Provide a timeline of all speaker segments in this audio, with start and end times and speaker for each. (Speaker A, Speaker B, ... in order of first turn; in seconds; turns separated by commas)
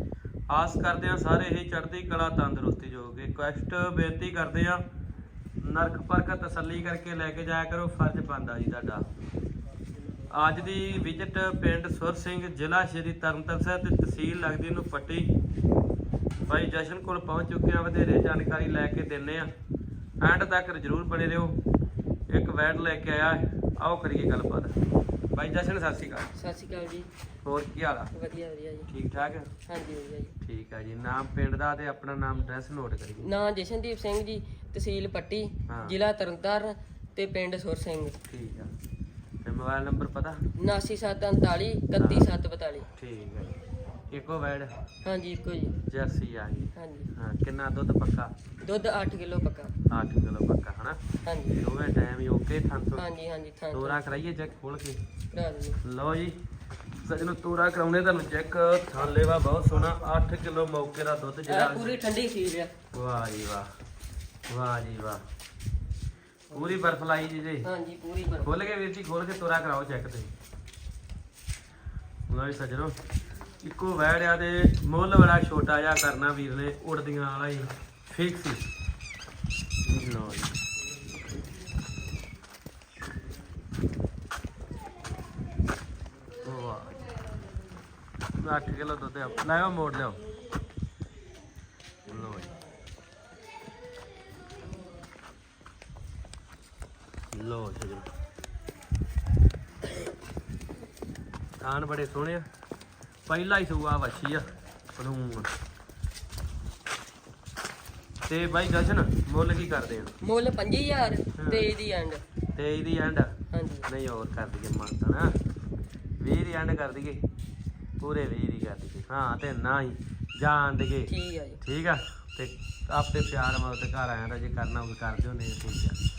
Speaker A: 0.5-4.8, Speaker A: 5.6-9.1, Speaker A: 10.3-15.3, Speaker A: 16.4-19.5, Speaker A: 20.2-21.6, Speaker A: 22.3-24.8, Speaker A: 25.3-26.3, Speaker B: 26.4-27.1, Speaker A: 27.4-28.1, Speaker B: 28.1-28.9, Speaker A: 28.9-29.5, Speaker B: 29.7-30.4, Speaker A: 30.4-33.3, Speaker B: 33.2-38.2, Speaker A: 35.7-36.0, Speaker A: 38.3-38.7, Speaker A: 39.4-40.5, Speaker B: 40.6-42.9, Speaker A: 42.0-42.3, Speaker A: 43.0-43.6, Speaker A: 44.1-44.7, Speaker B: 45.0-45.8, Speaker A: 45.9-48.4, Speaker B: 46.8-47.1, Speaker B: 48.6-49.7, Speaker A: 49.9-53.1, Speaker B: 51.2-51.6, Speaker B: 53.0-54.0, Speaker A: 53.7-55.0, Speaker B: 55.3-55.8, Speaker A: 55.8-56.4, Speaker A: 57.0-61.9, Speaker B: 61.5-62.7, Speaker A: 62.9-63.7, Speaker A: 64.5-65.2, Speaker A: 66.5-67.7, Speaker B: 67.6-68.5, Speaker A: 68.4-70.3, Speaker A: 72.3-73.0, Speaker A: 73.6-78.7, Speaker A: 79.9-80.6, Speaker A: 86.4-87.1, Speaker A: 88.4-90.2, Speaker A: 92.0-92.5, Speaker A: 97.3-98.1, Speaker A: 101.6-102.5, Speaker A: 103.3-105.5, Speaker A: 108.3-110.1, Speaker B: 110.2-112.2, Speaker A: 111.4-111.7, Speaker A: 112.5-115.3, Speaker B: 113.5-113.9, Speaker A: 116.2-117.2, Speaker A: 118.0-126.0, Speaker B: 121.1-121.6